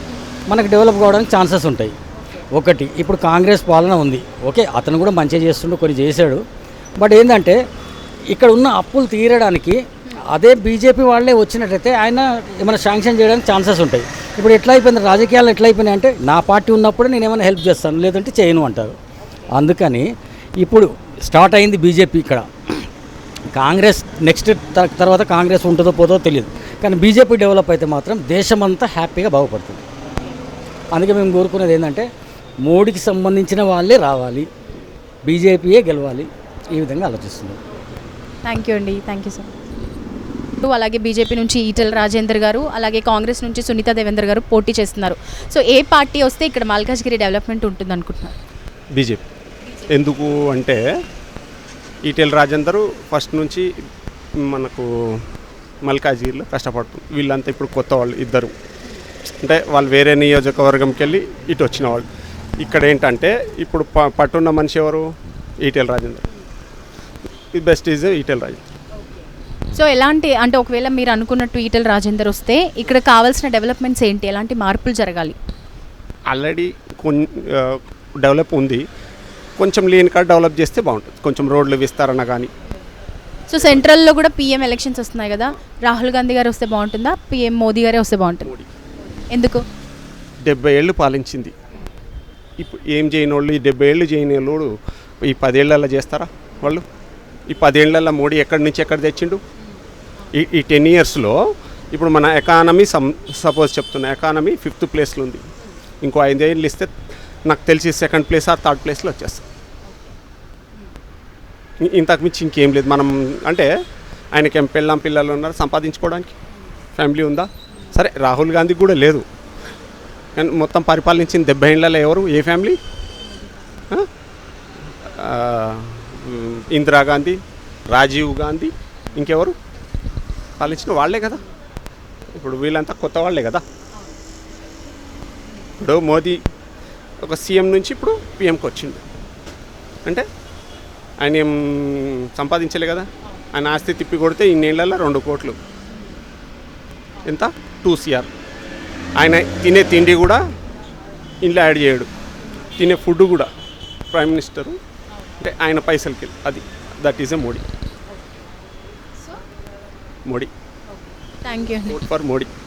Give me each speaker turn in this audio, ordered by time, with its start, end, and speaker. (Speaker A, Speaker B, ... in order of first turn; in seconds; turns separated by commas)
Speaker A: 0.5-2.0, Speaker A: 2.5-6.4, Speaker A: 7.0-7.6, Speaker A: 8.3-9.8, Speaker A: 10.3-19.0, Speaker A: 19.6-20.1, Speaker A: 20.6-22.5, Speaker A: 23.5-29.8, Speaker A: 30.9-32.1, Speaker A: 32.7-34.5, Speaker A: 35.3-37.6, Speaker B: 38.5-39.5, Speaker B: 40.6-48.4, Speaker C: 49.0-49.2, Speaker C: 49.9-50.8, Speaker C: 52.0-53.7, Speaker C: 54.4-54.9, Speaker C: 55.9-58.5, Speaker C: 59.4-62.1, Speaker C: 62.6-65.1, Speaker C: 65.6-66.2, Speaker C: 67.5-68.6, Speaker B: 69.8-75.4, Speaker C: 76.3-78.8, Speaker C: 79.6-82.5, Speaker B: 83.5-88.5, Speaker C: 88.5-88.7, Speaker B: 89.3-89.6, Speaker C: 90.5-91.5, Speaker C: 92.6-94.7, Speaker C: 95.2-96.8, Speaker C: 97.5-99.4, Speaker C: 100.3-101.4, Speaker C: 101.9-105.4, Speaker C: 106.0-106.9, Speaker C: 107.5-109.4, Speaker C: 111.8-113.7, Speaker C: 114.3-116.4, Speaker C: 117.0-119.2, Speaker C: 120.4-122.8, Speaker C: 125.2-127.4, Speaker C: 127.9-129.6, Speaker C: 130.6-131.4, Speaker C: 132.4-133.6, Speaker C: 135.8-136.4, Speaker C: 137.2-139.0, Speaker C: 141.2-145.6, Speaker C: 147.2-148.3, Speaker C: 149.2-150.4, Speaker C: 151.4-152.1, Speaker C: 152.8-153.5, Speaker C: 154.1-154.8, Speaker C: 155.4-157.7, Speaker B: 161.4-162.0, Speaker C: 161.9-162.5